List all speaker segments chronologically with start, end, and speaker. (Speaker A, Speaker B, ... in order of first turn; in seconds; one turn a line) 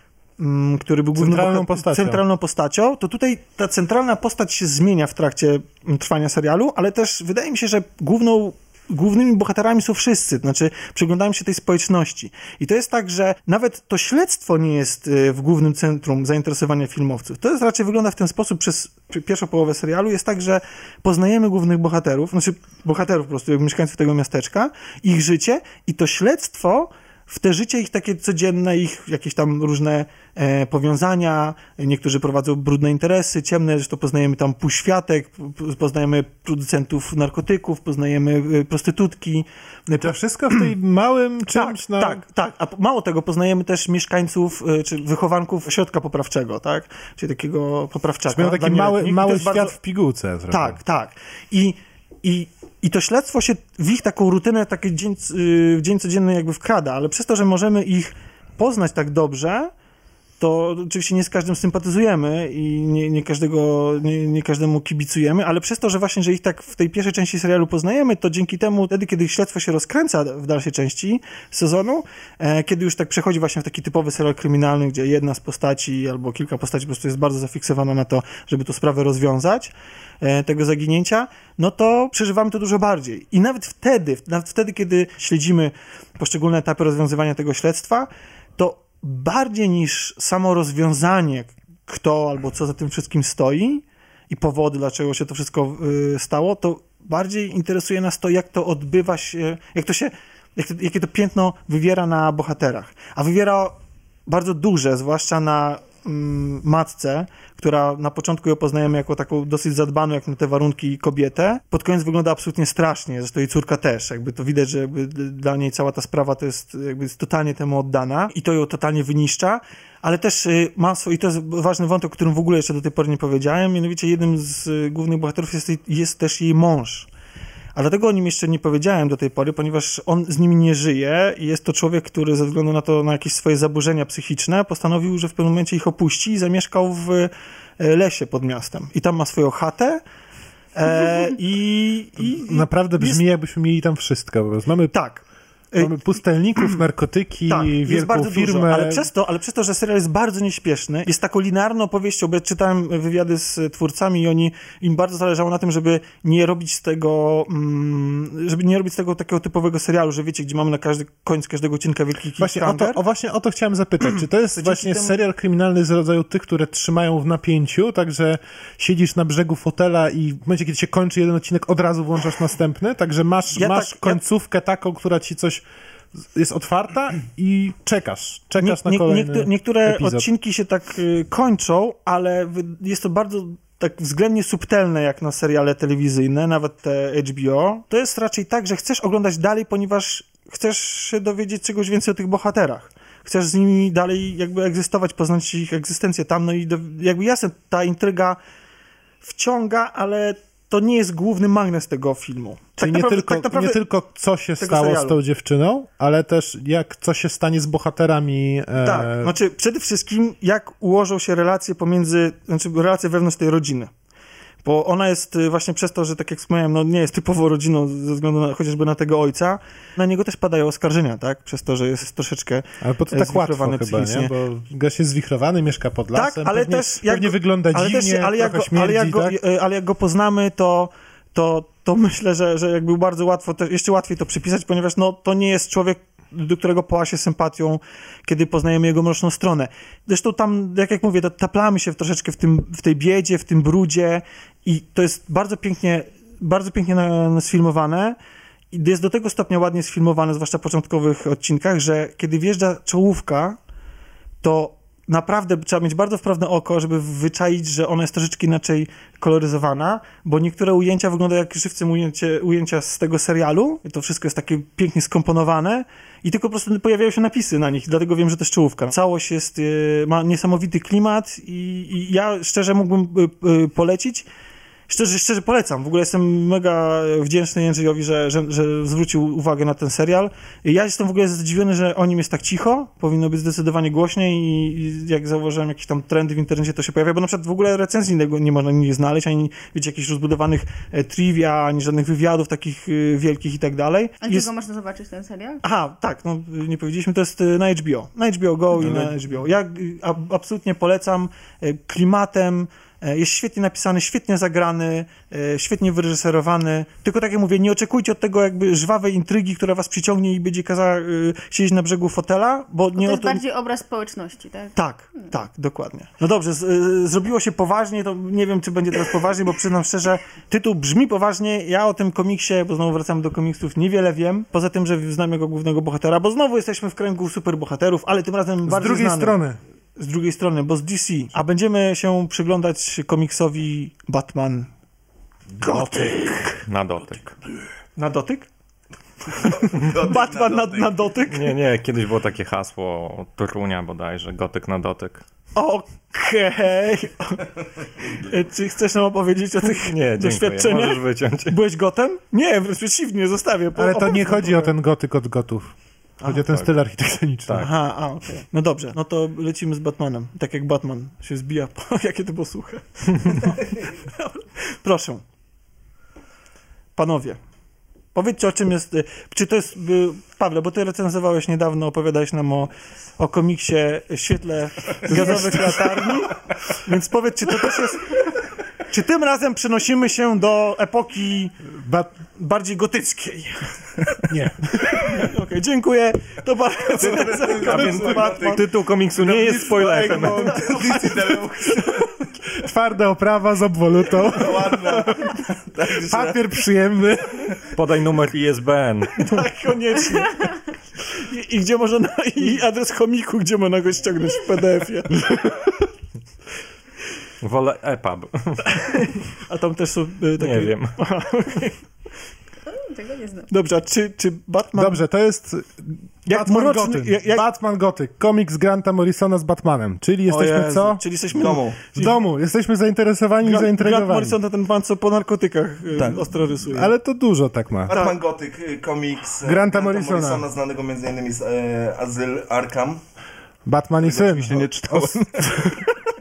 Speaker A: 0.4-40.6
Speaker B: 1.1-2.2
Speaker B: 40.0-42.2
Speaker A: 41.5-49.7
Speaker B: 48.3-50.8
Speaker A: 50.5-59.7
Speaker A: 60.4-127.1
Speaker A: 127.8-140.0
Speaker A: 140.8-143.2
Speaker B: 142.2-144.9
Speaker A: 144.9-145.9
Speaker B: 145.8-149.1
Speaker A: 147.5-163.0
Speaker B: 162.4-175.7
Speaker A: 164.5-165.2
Speaker A: 173.5-174.2
Speaker B: 176.3-180.3
Speaker A: 178.6-198.4
Speaker A: 199.2-203.8
Speaker B: 202.8-209.3
Speaker A: 204.6-205.2
Speaker A: 208.8-213.9
Speaker A: 214.6-224.3
Speaker B: 222.8-229.4
Speaker A: 226.1-248.2
Speaker A: 248.7-253.6
Speaker A: 254.4-274.3
Speaker A: 274.9-294.5
Speaker C: 294.2-295.6
Speaker A: 295.6-313.4
Speaker D: 298.8-299.1
Speaker C: 313.0-315.2
Speaker A: 314.8-329.4
Speaker B: 328.7-329.6
Speaker A: 330.0-334.7
Speaker B: 335.6-336.2
Speaker A: 335.6-336.6
Speaker E: 336.7-337.4
Speaker A: 338.0-338.5
Speaker A: 339.3-341.6
Speaker D: 339.4-341.0
Speaker E: 341.3-345.2
Speaker A: 345.6-347.4
Speaker A: 348.1-354.7
Speaker E: 349.8-351.6
Speaker B: 353.8-357.7
Speaker E: 356.4-356.7
Speaker A: 357.6-365.2
Speaker A: 367.0-367.4
Speaker A: 368.1-378.2
Speaker A: 378.9-381.6
Speaker B: 381.8-382.1
Speaker A: 382.2-384.3
Speaker B: 384.3-385.3
Speaker A: 384.8-388.7
Speaker D: 387.0-388.7
Speaker E: 387.6-390.7
Speaker D: 389.2-392.0
Speaker A: 389.3-392.0
Speaker B: 392.5-397.6
Speaker D: 394.1-396.4
Speaker E: 397.8-399.3
Speaker A: 399.2-405.6
Speaker E: 407.4-408.8
Speaker A: 408.8-411.8
Speaker E: 410.4-411.0
Speaker C: 412.7-413.5
Speaker A: 413.5-415.0
Speaker B: 414.8-421.0
Speaker A: 416.3-417.5
Speaker A: 420.3-422.2
Speaker D: 421.3-421.9
Speaker B: 421.9-424.4
Speaker A: 423.4-426.9
Speaker D: 425.9-426.3
Speaker B: 426.7-428.0
Speaker D: 427.9-433.0
Speaker A: 427.9-428.2
Speaker B: 429.4-430.4
Speaker B: 433.7-435.8
Speaker D: 434.0-435.8